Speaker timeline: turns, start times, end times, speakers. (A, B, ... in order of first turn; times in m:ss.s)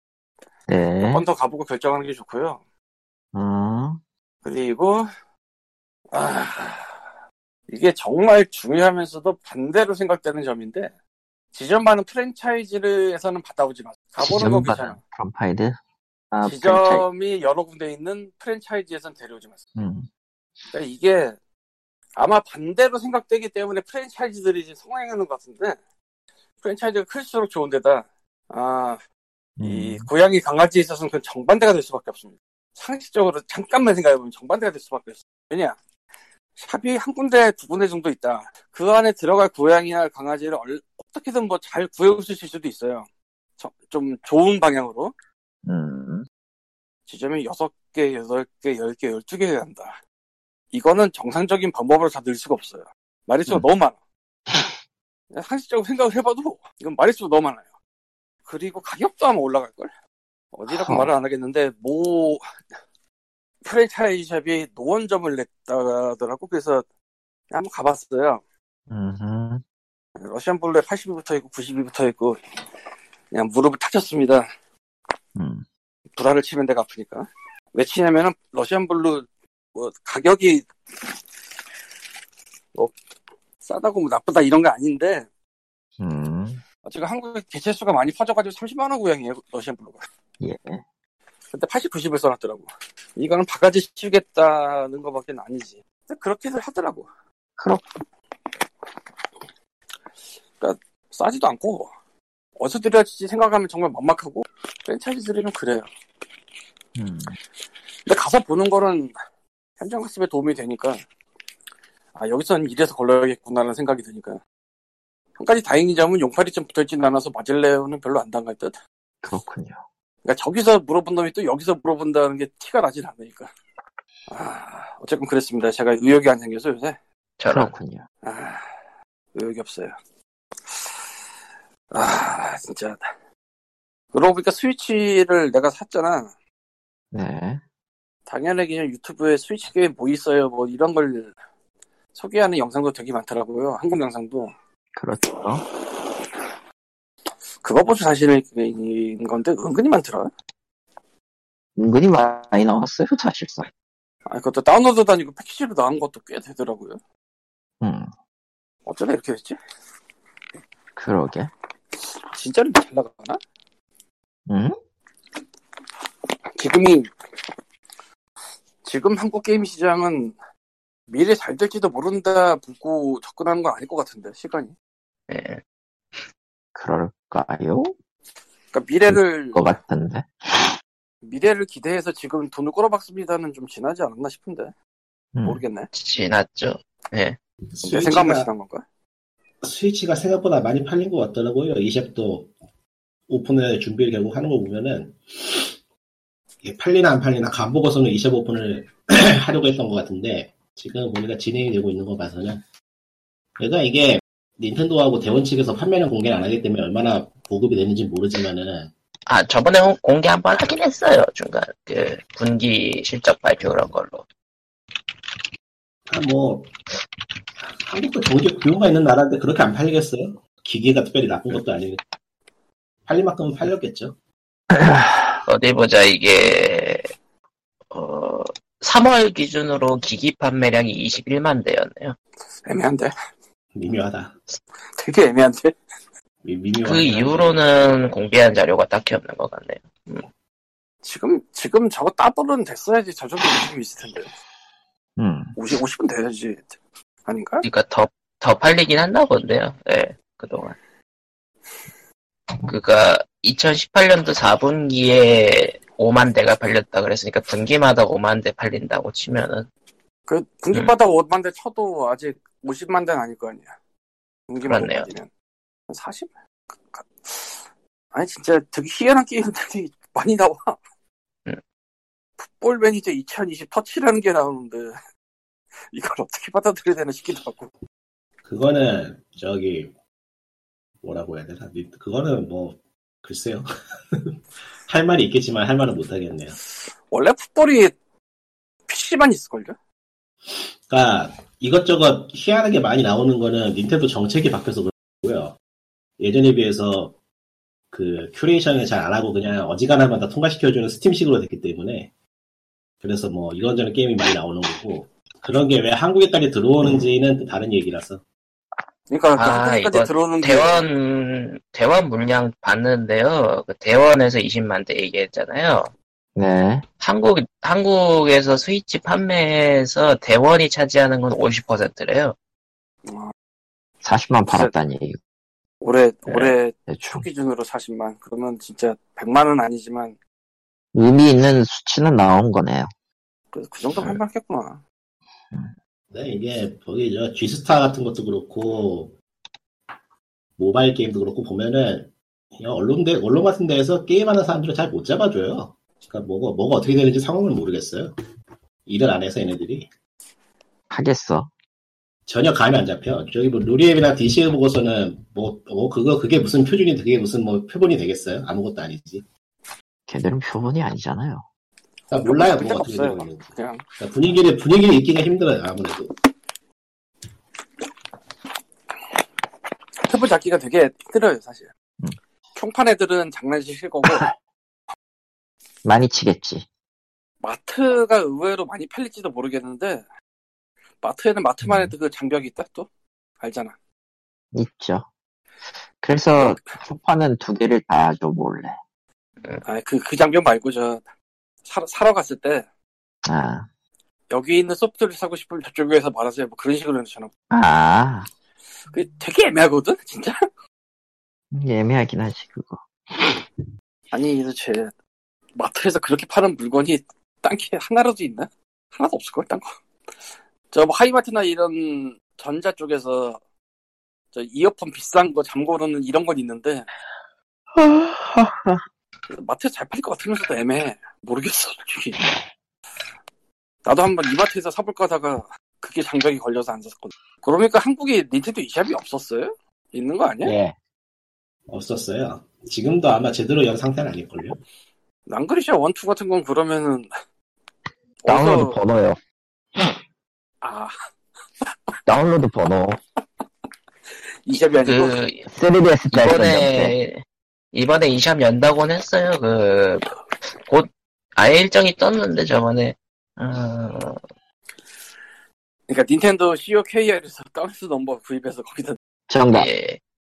0:00.7-0:01.2 A
0:01.1-0:02.6 B
0:03.3-0:04.0 A
0:04.4-0:05.1 B
0:06.1-0:07.0 B
0:07.7-0:10.9 B
0:11.5-0:15.0 B
0:14.2-0:15.8 A
0:16.3-0:17.0 A
0:16.4-0:19.6 B
0:19.8-0:20.1 A
0:20.7-0:21.4 B
0:22.2-0:25.8 B
0:26.6-0:29.0 B
0:29.6-0:30.1 A
0:29.6-0:35.8 B
0:36.6-0:43.1 B
0:43.6-0:45.1 B
0:45.6-0:46.2 A
0:47.0-0:50.0 B
0:50.7-0:54.0 B
0:55.3-0:57.7 B
0:58.4-0:59.9 B
1:00.5-1:02.4 B
1:00.7-1:01.1 A
1:03.6-1:06.8 B
1:07.5-1:08.4 B
1:08.9-1:09.6 A
1:10.2-1:12.4 B
1:13.3-1:14.4 B
1:15.4-1:15.6 A
1:16.2-1:20.7 B
1:23.6-1:25.3 B
1:26.0-1:26.6 A
1:26.8-1:30.0 B
1:30.4-1:30.8 A
1:31.5-1:37.1 B
1:37.6-1:37.9 A
1:40.6-1:41.9 B
1:42.6-1:45.9 B
1:47.0-1:47.4 A
1:48.1-1:49.1 B
1:49.8-1:51.0 B
1:52.1-1:54.4 B
1:55.4-1:58.8 B
1:59.2-1:59.8 A
2:00.2-2:03.5 B
2:04.3-2:07.0 B
2:07.4-2:07.7 C
2:07.5-2:08.0 A
2:08.2-2:08.7 B
2:09.3-2:09.9 B
2:10.7-2:10.9 B
2:11.9-2:13.1 B
2:14.1-2:16.3 B
2:17.1-2:17.6 A
2:18.3-2:21.3 B
2:22.1-2:24.5 B
2:25.0-2:25.6 A
2:27.6-2:30.3 B
2:31.8-2:33.7 A
2:34.3-2:37.0 B
2:37.8-2:38.1 A
2:38.8-2:39.6 B
2:41.0-2:41.5 A
2:42.3-2:43.4 B
2:44.5-2:44.7 A
2:46.6-2:47.1 B
2:48.8-2:50.4 B
2:51.1-2:54.7 B
2:55.3-2:55.6 C
2:56.7-2:57.9 A
2:58.7-2:59.7 B
2:59.1-3:00.7 A
3:01.2-3:04.7 B
3:05.3-3:05.6 A
3:05.4-3:05.9 B
3:05.9-3:07.4 C
3:07.7-3:08.5 D
3:07.8-3:08.8 B
3:09.6-3:12.5 D
3:13.3-3:15.7 D
3:16.6-3:22.6 D
3:23.6-3:28.9 D
3:29.3-3:34.2 C
3:36.1-3:36.7 D
3:37.6-3:42.0 D
3:43.1-3:44.1 D
3:44.7-3:45.2 A
3:45.4-3:47.1 C
3:47.9-3:52.2 C
3:52.6-3:53.1 B
3:53.7-3:54.3 D
3:55.0-3:55.8 B
3:56.4-3:57.6 D
3:56.8-4:00.2 C
4:01.0-4:04.3 B
4:05.2-4:05.5 A
4:05.6-4:07.6 B
4:07.6-4:10.8 C
4:12.6-4:19.7 C
4:20.3-4:23.7 B
4:24.5-4:25.3 B
4:24.6-4:25.1 C
4:25.9-4:26.3 B
4:26.8-4:27.6 B
4:28.1-4:30.8 B
4:32.4-4:34.9 B
4:35.9-4:37.7 B
4:38.4-4:39.9 D
4:41.0-4:46.6 D
4:47.1-4:47.9 B
4:48.9-4:49.8 B
4:50.9-4:55.6 D
4:56.2-4:57.2 D
4:57.9-5:02.1 D
5:03.0-5:08.2 D
5:09.1-5:10.8 B
5:09.4-5:15.9 C
5:16.4-5:16.8 A
5:17.0-5:22.4 C
5:23.0-5:23.3 B
5:24.0-5:25.2 A
5:24.4-5:24.7 B
5:25.8-5:30.2 B
5:26.3-5:27.2 A
5:30.9-5:32.9 A
5:33.5-5:34.8 B
5:36.1-5:39.1 D
5:40.6-5:48.1 D
5:48.8-5:49.9 D
5:50.9-5:51.5 A
5:52.3-5:59.2 D
6:00.1-6:01.4 A
6:02.1-6:03.5 D
6:02.1-6:03.8 B
6:04.0-6:06.1 D
6:10.0-6:11.7 B
6:12.5-6:14.3 B
6:15.8-6:16.6 A
6:17.4-6:20.0 B
6:21.0-6:22.9 B
6:21.6-6:21.9 A
6:23.4-6:23.7 B
6:24.5-6:25.1 A
6:26.0-6:28.8 A
6:26.4-6:26.7 B
6:29.6-6:31.0 B
6:31.6-6:32.6 B
6:33.2-6:33.7 A
6:34.3-6:37.3 B
6:37.5-6:38.3 A
6:38.9-6:40.4 B
6:41.5-6:43.4 A
6:44.1-6:44.9 B
6:45.5-6:49.7 B
6:50.7-6:53.4 B
6:54.3-6:56.9 B
6:57.7-6:58.8 A
6:59.3-7:02.2 B
7:03.8-7:10.6 B
7:10.4-7:10.7 A
7:11.7-7:14.6 D
7:15.3-7:17.1 B
7:18.2-7:18.8 B
7:18.2-7:19.2 A
7:20.6-7:20.9 B
7:22.1-7:23.0 A
7:24.4-7:25.2 B
7:24.8-7:25.5 C
7:25.5-7:26.9 A
7:26.1-7:34.2 C
7:35.9-7:39.0 B
7:39.3-7:39.7 A
7:39.5-7:40.0 C